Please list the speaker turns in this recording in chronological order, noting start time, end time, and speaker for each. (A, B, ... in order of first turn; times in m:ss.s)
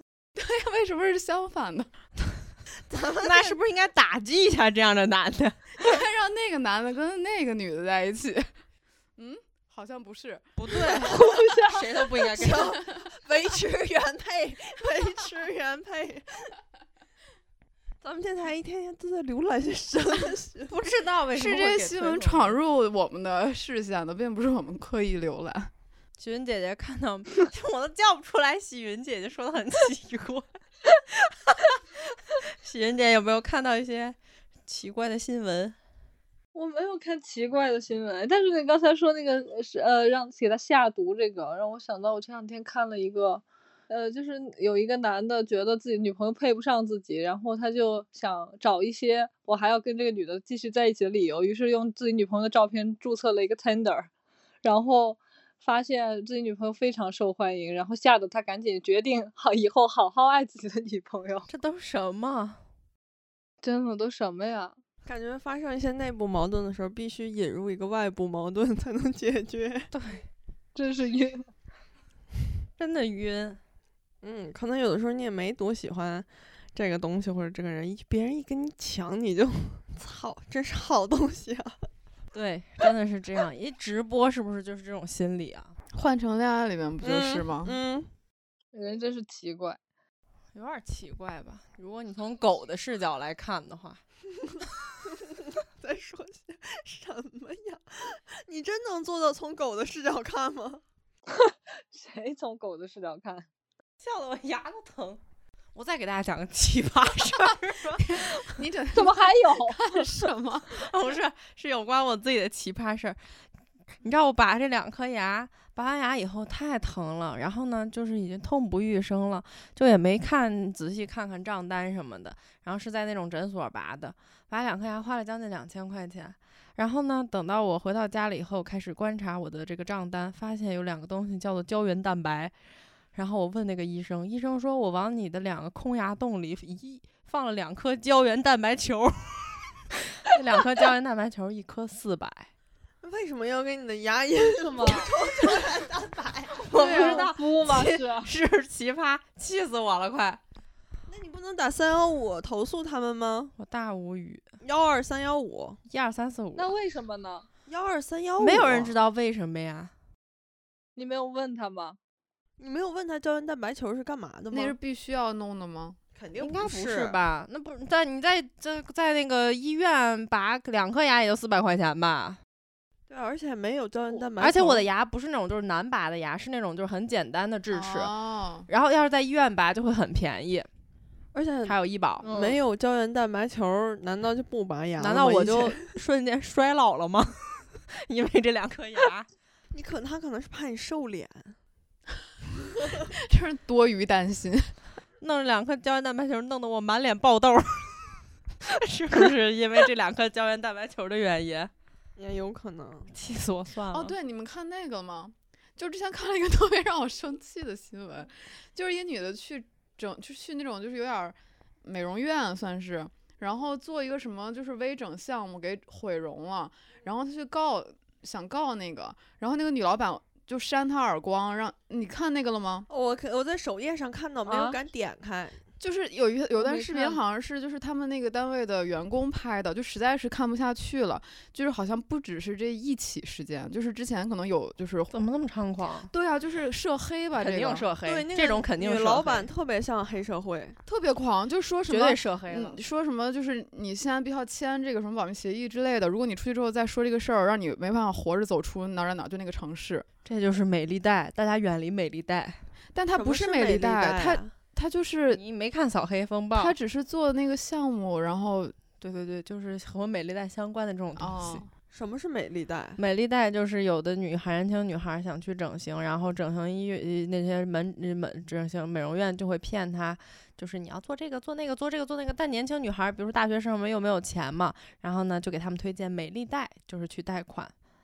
0:00.3-0:01.9 A
0:02.9-0:03.6 B
0:03.2-0:05.8 C
0:05.8-0:08.5 A
0:09.2-0:11.0 A
0:10.6-0:12.8 C
0:11.0-0:12.3 D
0:12.3-0:16.5 B
0:18.0-0:20.7 B
0:20.7-0:22.6 C
0:21.3-0:25.7 A
0:26.2-0:31.8 C
0:32.6-0:35.8 C
0:36.5-0:54.1 D
0:54.6-1:01.5 D
1:01.5-1:02.6 C
1:03.6-1:04.8 D
1:05.0-1:09.9 B
1:09.9-1:10.2 C
1:10.7-1:11.4 D
1:12.8-1:13.6 C
1:14.2-1:21.7 B
1:22.3-1:25.7 C
1:25.9-1:27.8 A
1:27.0-1:28.1 B
1:28.7-1:29.8 D
1:30.5-1:34.0 C
1:35.6-1:40.8 B
1:41.3-1:43.5 D
1:44.0-1:45.2 C
1:45.7-1:48.2 C
1:48.0-1:50.9 A
1:48.9-1:50.1 D
1:50.7-1:53.2 C
1:54.0-2:12.5 C
2:13.1-2:19.6 C
2:20.2-2:22.5 C
2:23.0-2:28.0 B
2:24.6-2:25.7 D
2:26.6-2:27.6 C
2:26.7-2:28.3 D
2:28.2-2:30.4 C
2:31.1-2:33.6 B
2:33.6-2:34.5 C
2:34.6-2:35.8 B
2:35.9-2:36.7 C
2:36.6-2:37.5 D
2:37.7-2:39.0 B
2:38.4-2:39.9 C
2:41.0-2:42.0 D
2:42.6-2:44.8 B
2:44.5-2:46.0 A
2:46.1-2:47.2 B
2:46.4-2:52.4 C
2:53.1-2:54.8 B
2:54.4-2:58.1 C
2:57.7-2:58.7 A
2:58.7-3:00.7 C
3:01.3-3:05.9 B
3:01.6-3:02.3 C
3:02.2-3:02.6 D
3:05.0-3:09.3 C
3:09.7-3:11.6 B
3:13.2-3:14.7 A
3:15.2-3:21.7 C
3:22.2-3:23.1 B
3:23.1-3:24.1 C
3:23.9-3:42.9 A
3:42.9-3:45.6 B
3:44.4-3:44.8 D
3:45.8-3:55.2 A
3:46.6-3:47.2 D
3:55.1-3:56.1 C
3:56.1-3:57.9 A
3:57.4-3:59.5 C
3:58.0-4:00.8 B
4:00.8-4:10.0 A
4:01.9-4:02.8 C
4:10.2-4:12.6 C
4:12.9-4:15.4 A
4:13.1-4:14.5 B
4:15.3-4:16.8 C
4:16.5-4:18.8 A
4:19.0-4:21.6 C
4:21.2-4:21.7 A
4:21.9-4:23.0 B
4:23.0-4:37.7 C